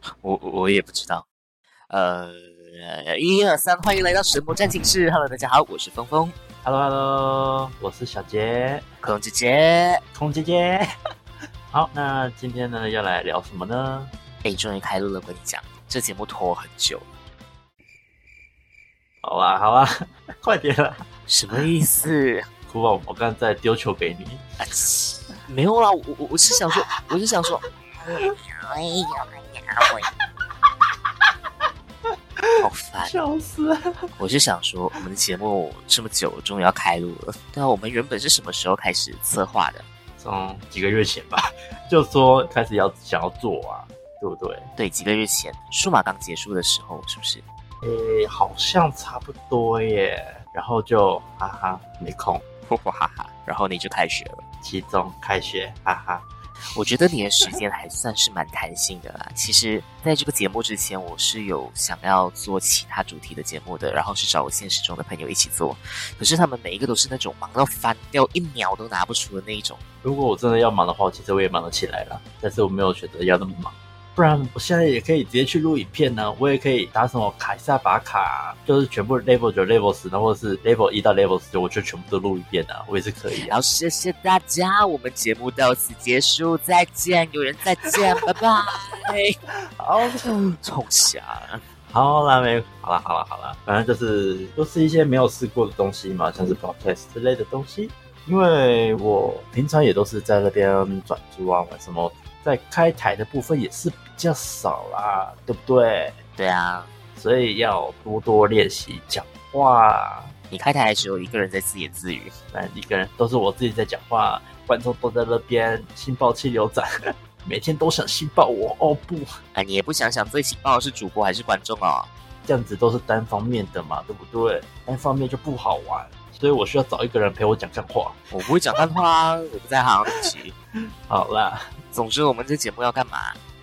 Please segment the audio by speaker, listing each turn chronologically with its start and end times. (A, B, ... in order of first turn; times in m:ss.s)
0:00.2-0:01.2 A
0:01.9-0:06.4 A
0:06.6-0:08.8 B
0:09.0-0:10.0 A
0:10.1-0:10.8 B
0:11.7-0:14.1 B
0:14.4-0:17.0 A
0:19.2-0:19.9 B
0:20.4-0:21.0 B
0:21.3-0:22.4 A
0:22.7-0:24.4 B
0:24.6-0:30.1 A
0:32.6-0:33.1 A
0:33.0-0:33.8 B
0:34.2-0:39.8 A
0:40.2-0:44.7 B
0:44.8-0:47.4 A
0:47.8-0:52.4 B
0:52.6-0:54.4 A
0:54.6-0:56.2 B
0:56.7-1:09.8 A
1:10.0-1:23.5 B
1:23.4-1:29.3 A
1:29.8-1:30.3 B
1:30.2-1:31.6 A
1:31.9-1:46.2 B
1:46.4-1:46.9 A
1:47.2-1:50.3 B
1:50.5-1:52.3 A
1:52.5-1:56.9 B
1:57.4-1:59.3 B
1:59.5-2:02.1 A
2:02.4-2:08.2 B
2:08.3-2:10.5 A
2:11.1-2:11.6 B
2:11.9-2:13.4 A